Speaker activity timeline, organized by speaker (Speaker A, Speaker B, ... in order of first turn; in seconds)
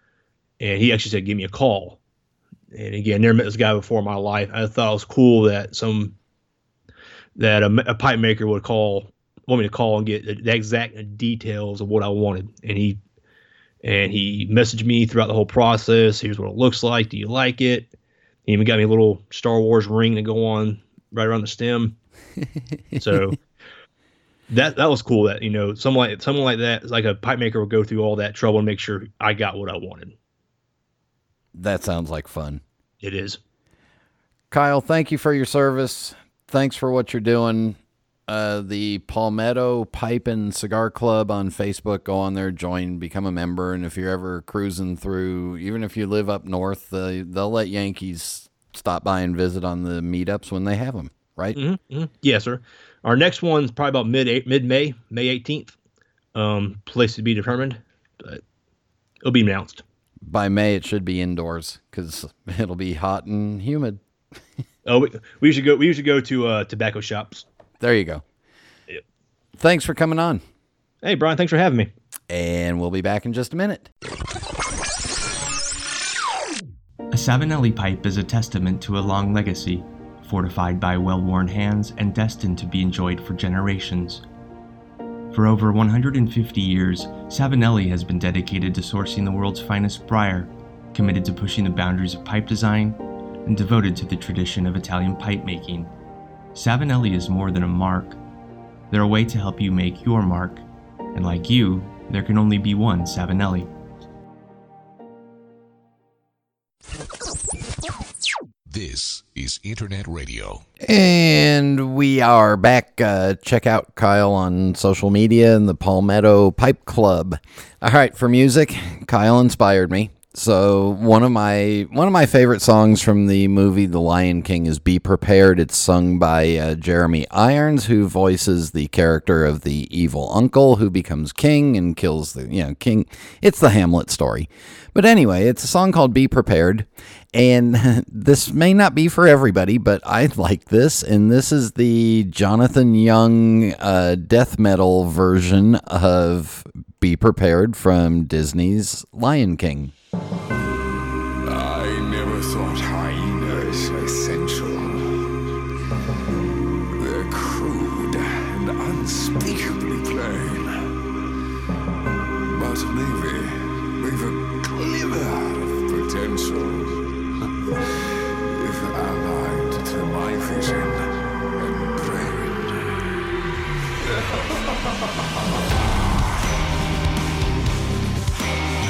Speaker A: 0.6-2.0, 2.7-6.1, 7.4-13.0, 13.8-17.9, 18.4-21.9, 23.0-23.4, 24.5-30.1, 33.0-33.4, 51.5-55.7, 56.3-58.4, 59.2-59.8, 64.8-67.4, 71.0-71.9
Speaker B: 22.9-23.2, 31.5-32.6, 34.5-51.6, 60.2-64.0, 67.8-68.2, 69.6-70.4, 72.3-73.9, 110.8-149.9
Speaker C: 77.1-84.2, 85.3-95.9, 96.5-98.2, 98.9-103.7
Speaker D: 108.7-110.6
Speaker E: 151.4-155.3, 157.0-160.8, 162.5-167.0, 168.5-172.7